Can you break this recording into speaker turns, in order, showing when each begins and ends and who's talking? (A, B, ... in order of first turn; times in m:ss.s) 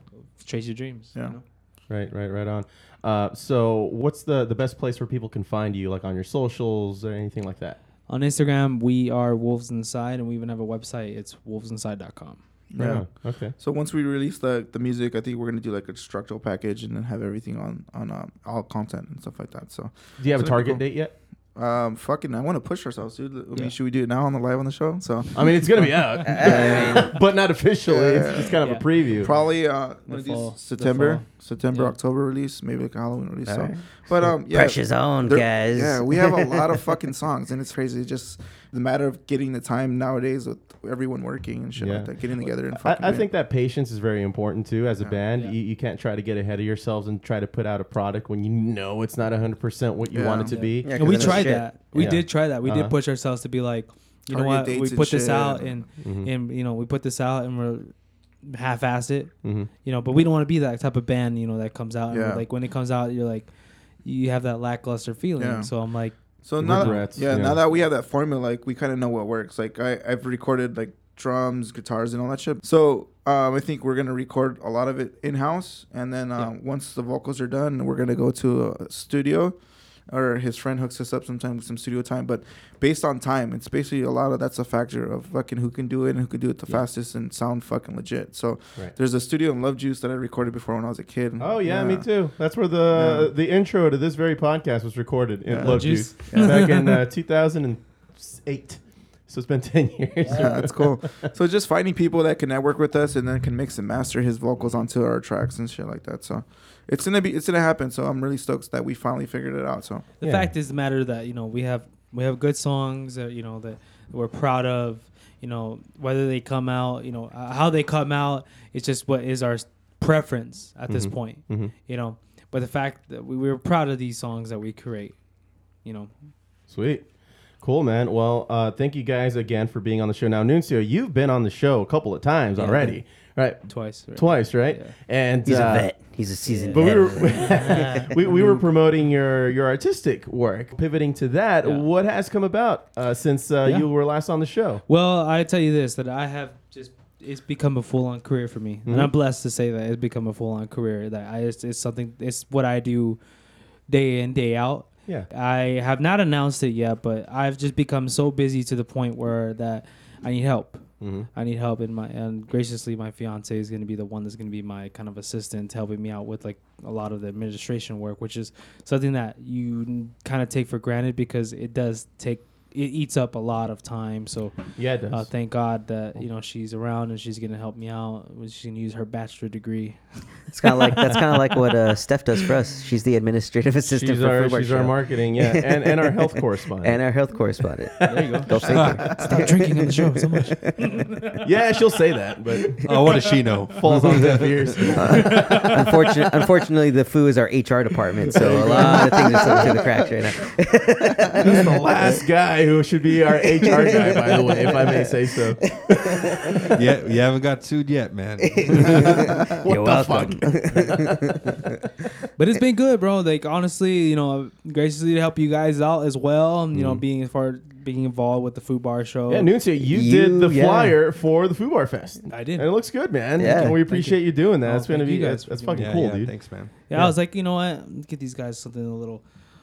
0:00.4-0:01.4 A
0:01.9-0:07.8 B
0:08.1-0:12.4 A
0:12.7-0:13.1 C
0:12.8-0:13.5 B
0:13.6-0:20.8 C
0:20.2-0:21.1 B
0:21.5-0:25.5 C
0:25.3-0:29.3 B
0:26.2-0:27.2 D
0:26.5-0:27.1 C
0:27.8-0:28.6 C
0:29.1-0:43.3 C
0:30.1-0:31.9 A
0:33.4-0:36.8 D
0:41.8-0:53.0 B
0:50.1-0:50.7 C
0:50.5-0:57.9 A
0:50.8-0:51.7 D
0:54.3-0:55.7 C
0:56.0-0:56.3 B
0:58.4-1:03.5 A
0:59.4-0:59.7 B
1:02.1-1:02.4 C
1:04.0-1:07.1 A
1:05.4-1:05.7 C
1:06.4-1:19.5 C
1:06.6-1:07.6 B
1:20.1-1:32.1 C
1:31.4-1:41.2 B
1:32.9-1:33.3 C
1:35.4-1:35.8 C
1:35.6-1:37.0 A
1:36.3-1:36.6 C
1:40.3-1:50.0 C
1:50.2-2:05.2 A
1:50.2-1:50.5 B
2:00.9-2:01.7 B
2:05.8-2:06.1 A
2:06.7-2:07.0 B
2:07.6-2:16.0 B
2:12.6-2:13.0 A
2:13.6-2:14.9 A
2:15.4-2:18.1 D
2:16.4-2:18.6 A
2:16.7-2:24.8 B
2:21.6-2:21.9 A
2:23.6-2:23.9 A
2:24.9-2:33.2 A
2:28.8-2:29.1 B
2:33.9-2:40.8 A
2:41.0-2:41.3 B
2:41.3-2:54.6 A
2:54.8-2:55.3 B
2:55.1-3:01.0 A
3:00.5-3:06.3 D
3:03.9-3:07.0 B
3:06.8-3:11.0 D
3:08.0-3:09.1 B
3:08.0-3:08.5 A
3:08.7-3:09.1 E
3:09.0-3:11.4 A
3:11.4-3:12.8 B
3:12.8-3:14.5 E
3:13.7-3:15.7 B
3:14.9-3:22.2 D
3:15.4-3:15.6 A
3:18.3-3:19.8 B
3:18.6-3:19.9 C
3:21.4-3:26.6 B
3:23.3-3:26.6 D
3:26.7-3:29.2 E
3:28.4-3:31.6 D
3:29.6-3:31.1 B
3:32.4-3:39.5 A
3:36.7-3:37.0 B
3:39.3-3:46.3 B
3:39.8-3:41.0 D
3:42.3-3:42.7 A
3:43.4-3:43.8 D
3:43.9-3:46.0 A
3:45.7-3:46.7 E
3:46.9-3:49.2 A
3:46.9-3:47.2 B